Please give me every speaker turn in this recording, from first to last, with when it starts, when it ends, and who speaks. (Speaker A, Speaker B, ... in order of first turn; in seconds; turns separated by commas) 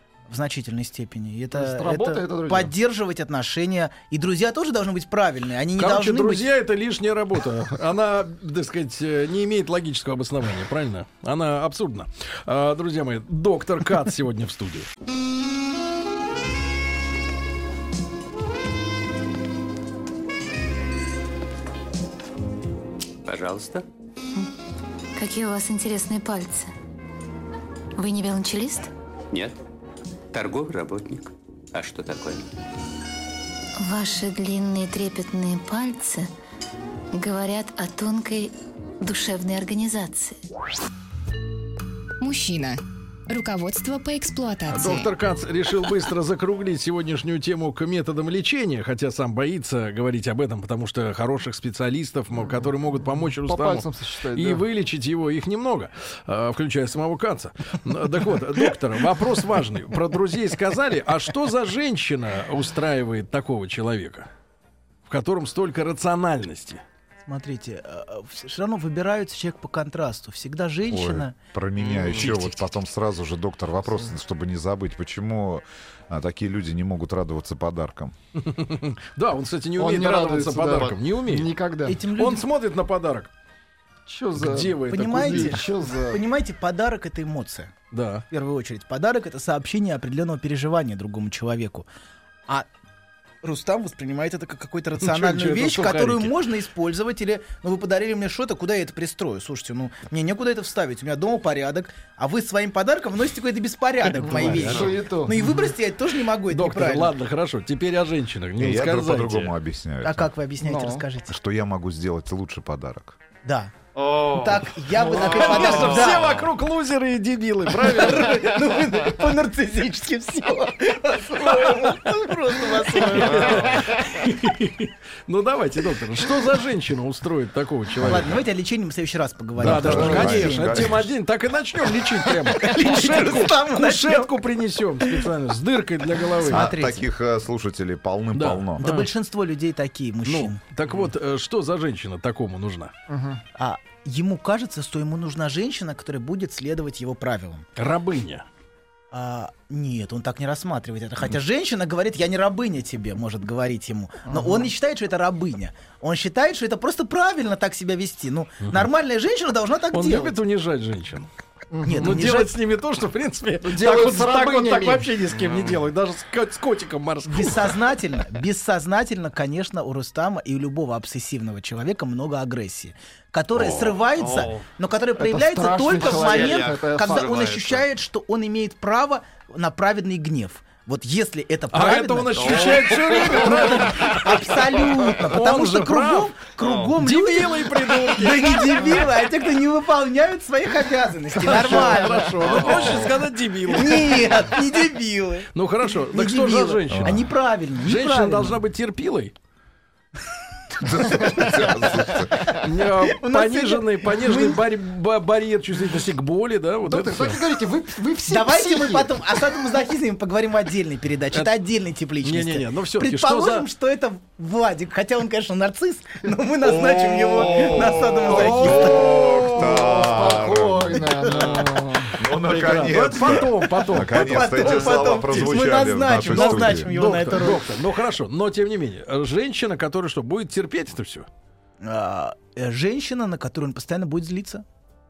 Speaker A: 0.3-6.5, Speaker B: 1.5-2.7, Speaker C: 5.8-14.9, Speaker D: 23.3-23.9, Speaker E: 25.2-26.7, Speaker E: 28.0-28.9, Speaker D: 29.3-29.6, Speaker D: 30.3-32.5, Speaker E: 33.8-36.3, Speaker E: 37.1-40.4, Speaker F: 42.2-45.1, Speaker C: 44.7-64.3, Speaker B: 53.5-54.6, Speaker C: 65.1-66.8, Speaker A: 67.3-71.3, Speaker G: 70.9-78.1, Speaker H: 71.8-72.4, Speaker C: 72.2-72.5, Speaker C: 78.4-81.5, Speaker B: 79.8-82.0, Speaker H: 80.7-80.9, Speaker A: 81.9-82.5, Speaker C: 82.2-83.3, Speaker B: 84.1-86.2, Speaker C: 84.4-85.6, Speaker A: 84.9-87.7, Speaker C: 87.9-88.3, Speaker A: 88.3-91.9, Speaker A: 93.4-107.1, Speaker C: 95.0-96.4, Speaker B: 104.2-105.6, Speaker C: 104.2-104.9, Speaker H: 104.7-104.9, Speaker C: 106.5-109.5, Speaker G: 108.6-110.3, Speaker A: 110.0-111.3, Speaker B: 110.6-111.1, Speaker G: 111.3-113.2, Speaker A: 113.4-113.7, Speaker H: 114.0-116.4, Speaker A: 114.3-116.5, Speaker C: 115.0-118.5, Speaker A: 117.8-123.7, Speaker C: 121.4-128.4, Speaker H: 123.1-123.9, Speaker G: 128.0-128.3, Speaker A: 128.1-131.0, Speaker G: 129.6-131.1, Speaker C: 129.6-136.7, Speaker A: 132.5-134.3, Speaker A: 135.0-135.2, Speaker A: 136.4-137.1, Speaker G: 136.5-138.8, Speaker C: 138.3-139.1, Speaker A: 138.8-140.6, Speaker C: 140.2-142.9, Speaker B: 143.1-143.4, Speaker A: 143.6-147.7, Speaker C: 147.8-148.5, Speaker A: 149.1-160.3, Speaker B: 154.3-154.7, Speaker C: 159.9-161.3, Speaker B: 161.7-162.3, Speaker A: 161.8-162.5, Speaker C: 162.0-167.8, Speaker B: 163.7-165.1, Speaker H: 165.3-165.8, Speaker A: 167.3-193.1, Speaker C: 173.6-174.0, Speaker H: 174.1-174.7, Speaker B: 175.2-177.3, Speaker H: 175.9-177.9, Speaker C: 181.7-184.4, Speaker H: 182.4-183.5, Speaker C: 185.2-186.4, Speaker H: 186.6-186.9, Speaker C: 187.0-189.0, Speaker C: 191.4-194.3, Speaker B: 191.6-192.1, Speaker H: 192.4-193.2, Speaker A: 193.7-198.6, Speaker C: 195.5-197.3, Speaker G: 196.9-197.2, Speaker C: 197.8-199.3, Speaker G: 200.8-202.5, Speaker A: 201.1-202.1, Speaker C: 202.6-207.4, Speaker A: 203.1-204.6, Speaker B: 206.8-209.2, Speaker A: 208.3-219.2, Speaker C: 212.2-213.7, Speaker G: 216.6-221.3, Speaker B: 218.3-222.2, Speaker C: 218.7-219.9, Speaker A: 221.1-221.7, Speaker G: 222.2-226.9, Speaker C: 222.3-224.8, Speaker A: 224.1-227.6, Speaker C: 226.3-231.3, Speaker A: 231.8-234.6